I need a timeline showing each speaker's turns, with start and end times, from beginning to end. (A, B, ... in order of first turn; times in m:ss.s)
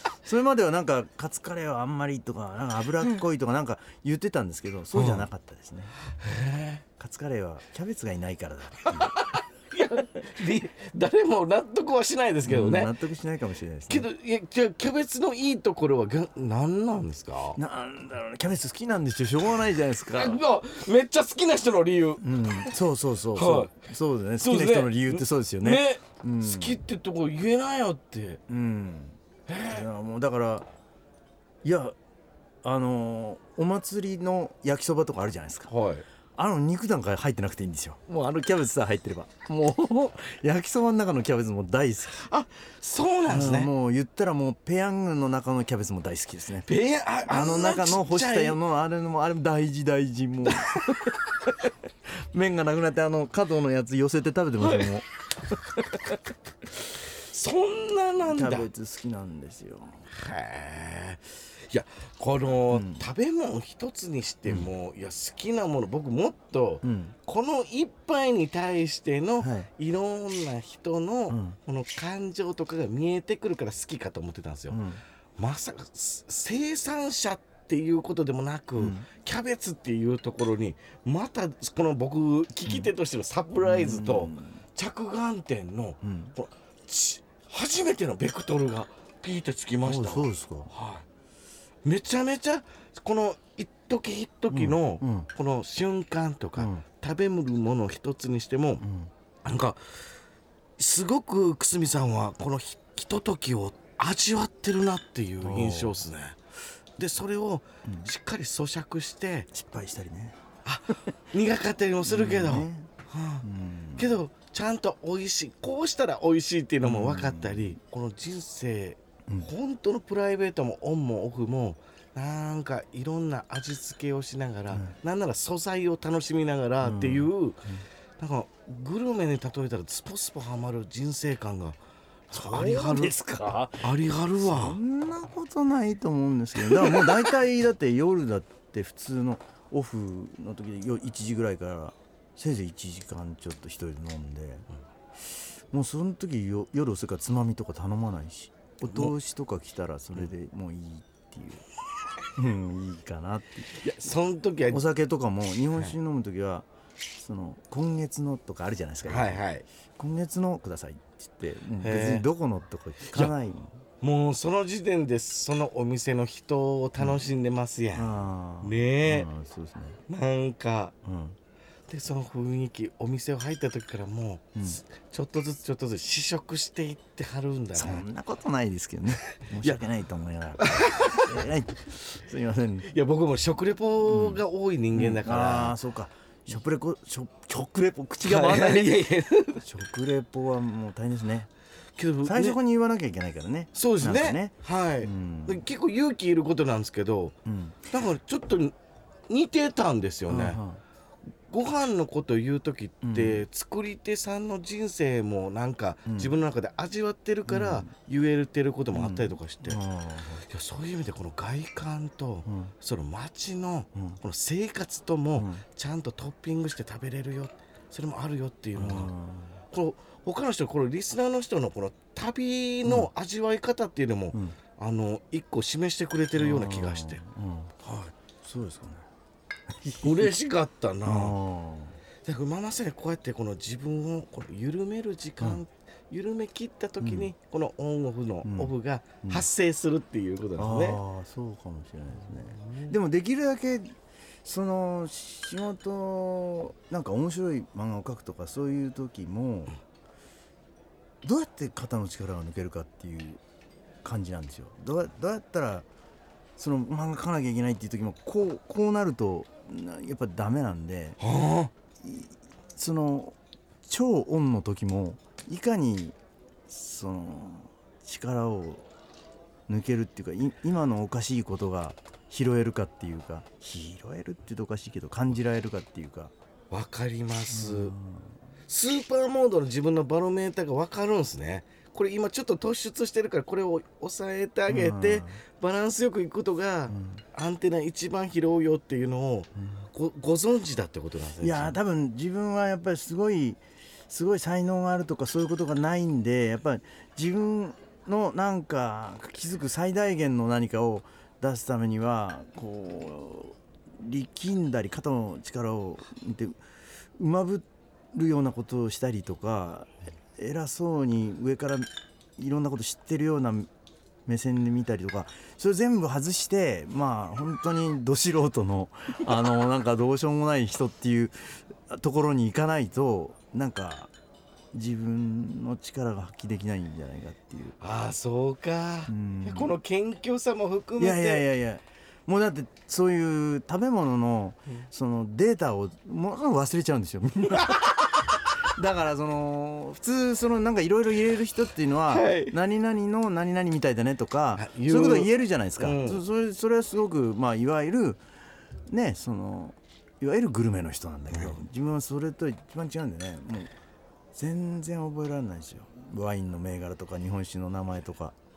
0:00.2-0:06.0 A
0:04.9-0:05.3 B
0:06.2-0:06.8 B
0:07.0-0:09.2 A
0:08.9-0:13.0 B
0:12.4-0:14.1 A
0:13.9-0:17.6 B
0:17.6-0:20.4 A
0:20.1-0:22.8 B
0:22.2-0:26.8 A
0:23.3-0:23.8 B
0:24.4-0:28.4 B
0:28.5-0:30.7 A
0:29.5-0:29.9 B
0:31.6-0:32.0 A
0:32.6-0:35.7 A
0:35.7-0:36.0 B
0:36.4-0:42.2 A
0:42.2-0:43.7 B
0:43.3-0:46.7 A
0:46.7-0:48.6 B
0:47.2-0:51.1 A
0:50.6-0:50.8 B
0:52.3-0:55.1 A
0:56.9-0:58.7 B
0:58.2-1:00.0 A
1:00.1-1:14.8 B
1:02.7-1:03.0 A
1:04.5-1:04.7 A
1:06.8-1:07.2 A
1:09.4-1:09.7 A
1:11.3-1:11.6 A
1:14.7-1:15.0 A
1:15.4-1:31.1 B
1:18.8-1:19.1 A
1:23.6-1:24.6 A
1:26.0-1:26.4 A
1:29.8-1:30.7 A
1:31.8-1:38.9 B
1:34.5-1:35.3 A
1:36.6-1:36.8 A
1:38.8-1:39.1 A
1:39.4-1:40.0 B
1:40.8-1:46.4 B
1:45.4-1:46.0 A
1:47.0-1:49.5 B
1:47.9-1:48.1 A
1:49.5-1:50.4 A
1:50.6-2:11.8 B
1:52.0-1:52.9 A
1:53.4-1:54.2 A
1:56.8-1:57.8 A
2:04.7-2:05.0 A
2:06.8-2:07.8 A
2:12.3-2:13.2 B
2:12.3-2:24.7 A
2:13.8-2:14.8 B
2:16.6-2:17.3 B
2:25.7-2:31.6 A
2:28.9-2:29.1 B
2:32.4-2:33.7 A
2:33.8-2:34.8 B
2:34.7-2:39.4 A
2:39.0-2:39.6 B
2:40.0-2:43.8 A
2:41.8-2:42.3 B
2:43.1-2:43.4 B
2:44.0-2:49.3 B
2:47.9-2:50.0 A
2:50.1-2:51.0 B
2:51.0-2:51.4 A
2:51.9-2:58.0 B
2:54.6-2:54.8 A
2:57.8-3:02.9 A
3:00.6-3:01.3 B
3:02.9-3:05.8 B
3:04.0-3:09.0 A
3:08.2-3:09.6 B
3:09.6-3:11.5 A
3:12.0-3:12.6 B
3:12.2-3:15.6 A
3:13.8-3:17.4 B
3:17.5-3:17.9 A
3:17.9-3:18.8 B
3:19.3-3:20.6 B
3:20.3-3:20.8 A
3:21.5-3:29.8 B
3:23.0-3:23.4 A
3:26.1-3:26.4 A
3:27.5-3:27.9 A
3:28.9-3:30.4 A
3:30.4-3:39.1 B
3:32.4-3:32.7 A
3:34.0-3:34.2 A
3:35.4-3:35.6 A
3:38.8-3:39.6 A
3:39.7-3:47.2 B
3:46.4-3:49.1 A
3:49.8-3:50.3 A
3:50.0-3:51.4 B
3:51.0-3:52.0 A
3:52.2-4:01.0 B
3:57.0-3:57.3 A
3:58.4-3:59.5 A
4:00.6-4:09.8 A
4:02.2-4:03.0 B
4:11.2-4:13.4 A
4:14.0-4:15.9 A
4:16.6-4:21.2 A
4:21.2-4:21.7 B
4:22.0-4:26.2 A
4:26.7-4:28.9 A
4:29.7-4:36.3 A
4:36.7-4:38.0 B
4:37.5-4:38.3 A
4:38.7-4:51.8 B
4:44.7-4:45.4 A
4:46.9-4:47.2 A
4:51.4-5:06.6 A
5:07.2-5:13.7 A
5:14.3-5:24.1 A
5:24.7-5:27.8 A
5:27.8-5:31.5 B
5:29.1-5:29.8 A
5:31.0-5:38.1 A
5:37.6-5:37.9 B
5:38.8-5:48.2 A
5:42.1-5:42.6 B
5:44.5-5:46.2 B
5:48.9-5:53.7 A
5:51.3-5:51.6 B
5:54.3-5:58.4 A